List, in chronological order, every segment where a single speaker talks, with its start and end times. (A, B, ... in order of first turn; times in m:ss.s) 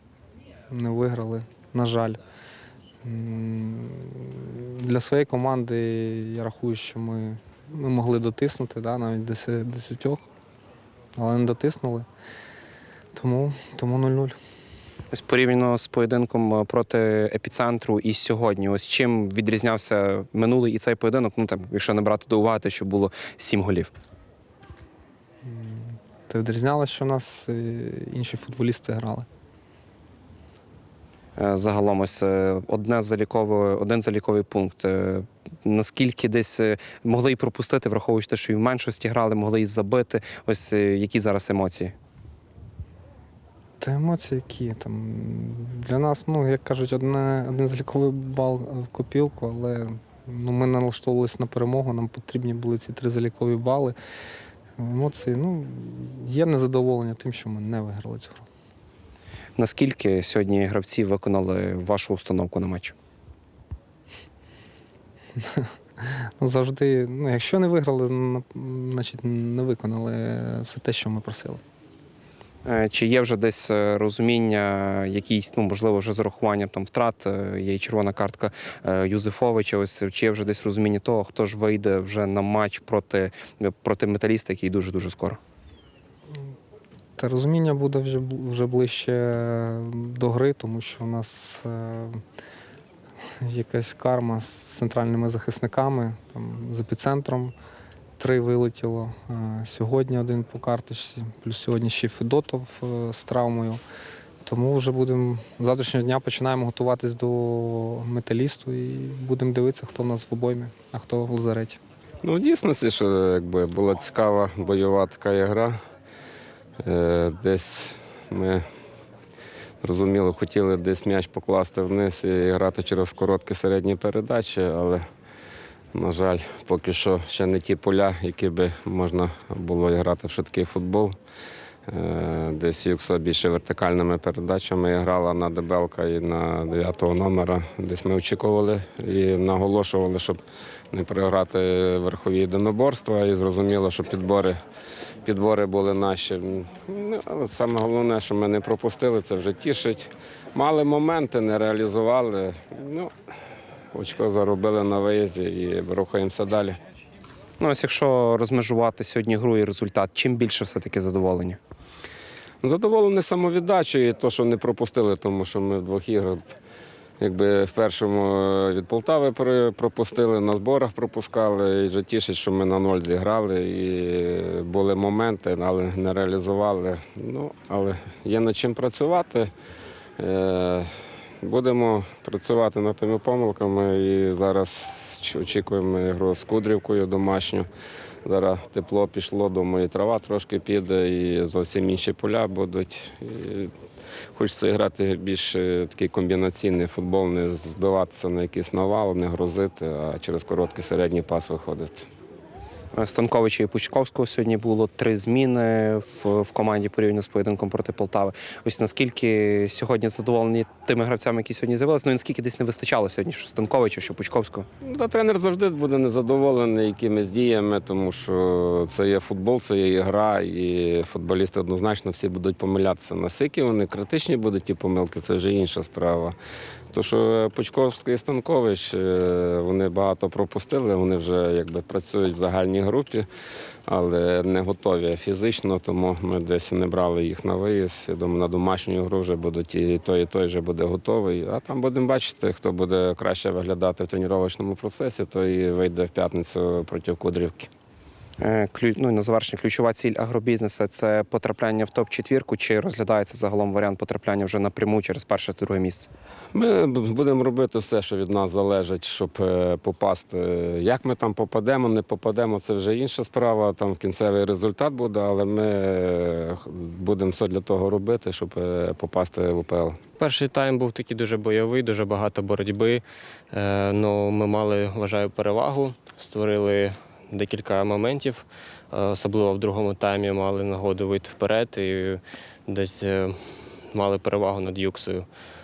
0:00.7-0:02.2 A
0:03.0-0:10.3 A
0:11.2-0:12.0 A
0:13.1-0:14.4 A
0:15.1-0:23.9 B
0:25.4-0:29.3 A
0:31.4-0:41.9 B
0:43.8-0:54.0 A
0:54.8-0:58.4 A
0:59.6-1:02.9 B
1:06.4-1:11.6 A
1:12.6-1:25.4 B
1:27.2-1:32.2 A
1:33.4-1:37.5 A
1:38.2-1:43.8 A
1:44.4-1:51.8 A
1:52.2-1:55.8 C
1:56.8-1:58.6 C
1:59.8-2:05.0 C
2:05.9-2:11.2 C
2:11.9-2:20.4 C
2:20.9-2:24.6 C
2:25.2-2:33.1 C
2:33.9-2:36.8 C
2:37.6-2:41.6 B
2:42.6-2:46.4 C
2:47.2-2:59.5 C
3:00.2-3:00.9 C
3:01.4-3:07.7 C
3:08.2-3:13.7 C
3:14.4-3:22.1 C
3:22.9-3:34.7 B
3:34.8-3:46.4 C
3:46.9-3:53.3 C
3:53.9-4:07.7 C
4:08.4-4:16.1 B
4:16.5-4:30.0 C
4:30.2-4:43.4 D
4:43.9-4:45.3 D